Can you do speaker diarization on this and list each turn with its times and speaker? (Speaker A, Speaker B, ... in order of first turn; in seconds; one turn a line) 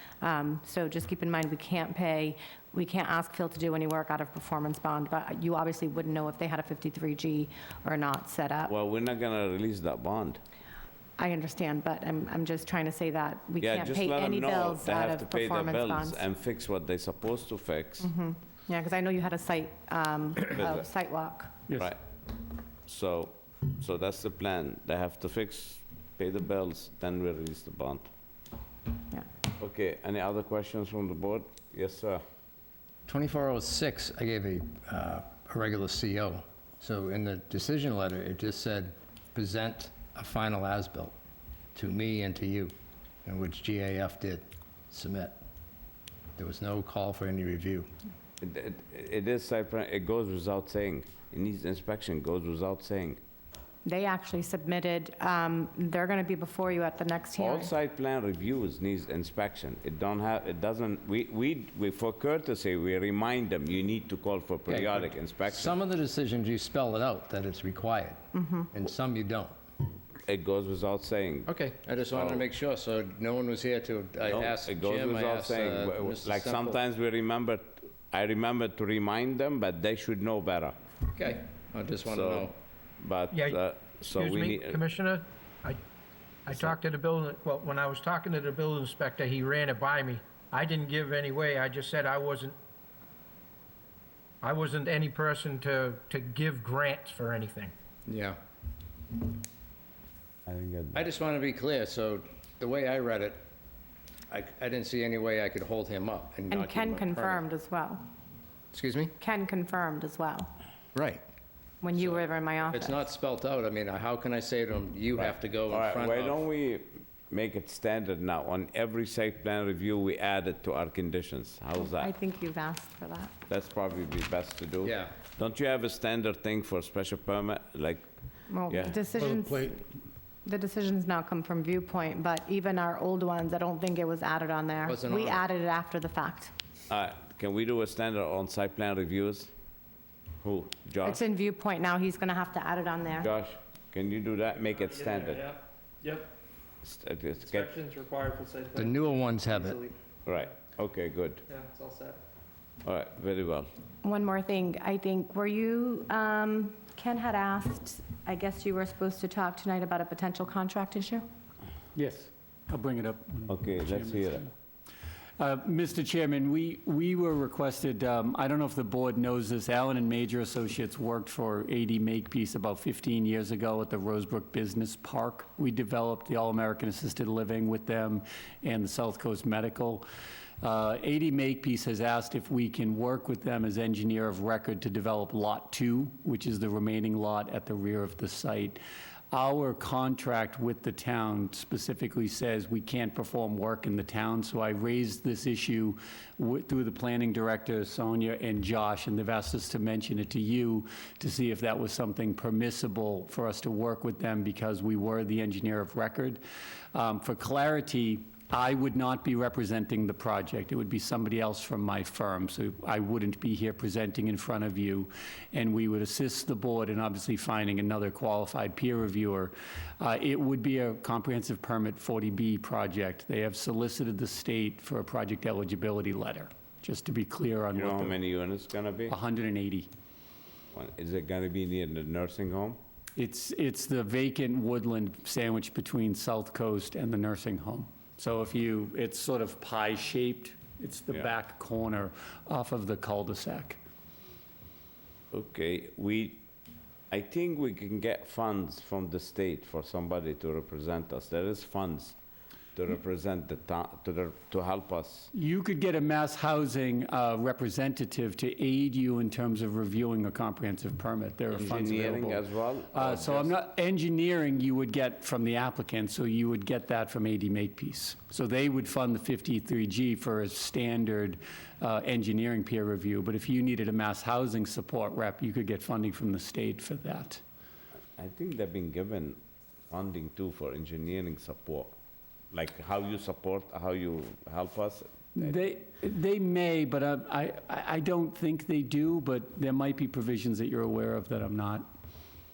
Speaker A: 0.2-8.7
Speaker B: 8.7-10.4
Speaker A: 11.2-16.2
Speaker B: 13.6-18.1
Speaker A: 18.0-21.6
Speaker B: 22.9-28.1
Speaker B: 29.6-32.2
Speaker C: 33.0-41.1
Speaker C: 41.7-42.7
Speaker C: 43.2-45.4
Speaker C: 46.4-47.9
Speaker B: 48.4-53.2
Speaker A: 53.8-57.7
Speaker B: 57.4-65.8
Speaker C: 64.7-69.5
Speaker A: 68.3-68.7
Speaker B: 70.2-71.5
Speaker C: 71.5-76.8
Speaker B: 72.1-72.4
Speaker B: 74.3-80.8
Speaker C: 81.1-82.5
Speaker B: 82.1-82.5
Speaker B: 83.0-84.8
Speaker D: 83.3-85.8
Speaker D: 86.5-92.5
Speaker B: 86.5-86.8
Speaker D: 94.4-97.7
Speaker C: 98.1-98.4
Speaker B: 100.5-101.1
Speaker C: 100.9-103.4
Speaker C: 104.3-107.4
Speaker A: 106.5-108.0
Speaker C: 108.7-109.1
Speaker A: 109.2-110.5
Speaker C: 110.9-111.2
Speaker A: 111.8-113.0
Speaker C: 112.0-116.4
Speaker B: 115.2-122.1
Speaker A: 121.8-123.3
Speaker B: 123.5-128.0
Speaker C: 124.8-125.2
Speaker A: 128.5-129.8
Speaker B: 128.7-129.0
Speaker C: 129.4-129.7
Speaker A: 130.4-136.5
Speaker C: 134.8-135.5
Speaker B: 136.9-139.5
Speaker B: 140.4-141.2
Speaker A: 141.0-143.3
Speaker B: 143.2-145.6
Speaker E: 144.7-146.3
Speaker B: 146.8-147.8
Speaker E: 147.4-149.9
Speaker C: 148.7-149.8
Speaker B: 150.2-151.4
Speaker E: 151.5-152.2
Speaker B: 152.8-153.7
Speaker A: 154.0-161.2
Speaker F: 161.9-164.5
Speaker B: 163.5-164.5
Speaker F: 165.4-180.0
Speaker F: 180.6-188.8
Speaker F: 189.3-206.4
Speaker F: 206.9-228.2
Speaker B: 227.7-229.2
Speaker F: 229.1-229.9
Speaker B: 230.7-232.8
Speaker F: 233.2-243.8
Speaker B: 245.3-246.4
Speaker B: 247.1-252.1
Speaker B: 252.8-255.3
Speaker F: 255.3-277.4
Speaker B: 261.5-263.6
Speaker B: 278.2-279.4
Speaker B: 279.9-281.9
Speaker B: 282.5-285.5
Speaker F: 285.4-291.9